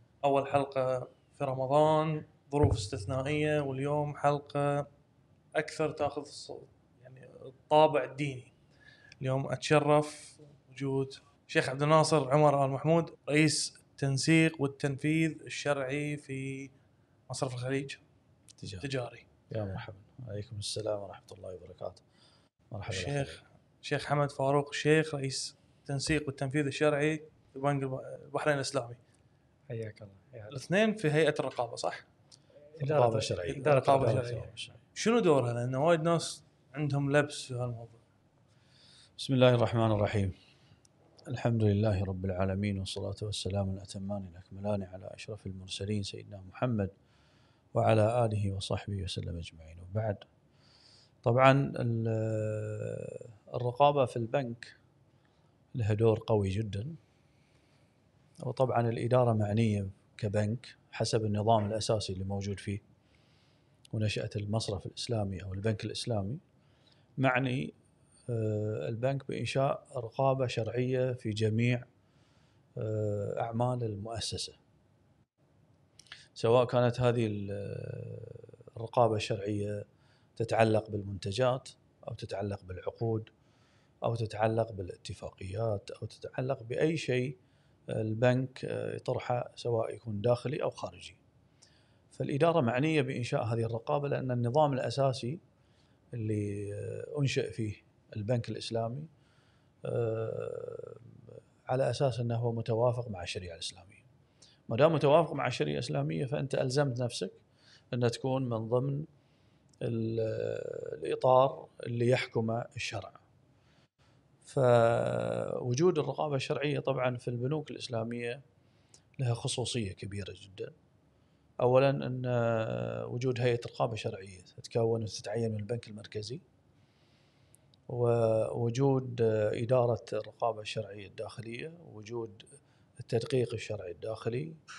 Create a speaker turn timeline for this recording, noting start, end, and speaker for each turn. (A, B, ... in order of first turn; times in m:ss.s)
0:00.2-0:04.9 A
0:05.5-0:08.5 A
0:09.2-0:16.7 A
0:17.3-0:18.0 A
0:18.6-0:18.8 B
0:18.8-0:19.2 A
0:19.5-0:22.0 B
0:22.7-0:23.4 B
0:22.9-0:29.0 A
0:29.7-0:30.6 C
0:30.5-0:32.0 A
0:32.7-0:34.5 C
0:32.8-0:34.7 B
0:33.5-0:38.0 A
0:39.2-0:40.3 B
0:41.3-0:46.9 B
0:47.7-0:50.2 B
0:51.2-0:54.8 B
0:55.7-0:57.0 B
0:58.4-1:02.8 B
1:03.9-1:06.4 B
1:07.2-1:07.7 B
1:08.3-1:11.8 B
1:12.8-1:14.6 B
1:16.4-1:19.8 B
1:20.4-1:23.3 B
1:24.0-1:27.4 B
1:27.9-1:31.2 B
1:32.1-1:35.4 B
1:36.1-1:39.1 B
1:39.8-1:44.0 B
1:44.7-1:47.4 B
1:47.9-1:49.1 B
1:49.8-1:53.2 B
1:54.4-1:58.4 B
1:59.2-2:00.7 B
2:01.6-2:06.4 B
2:07.9-2:12.4 B
2:13.0-2:14.6 B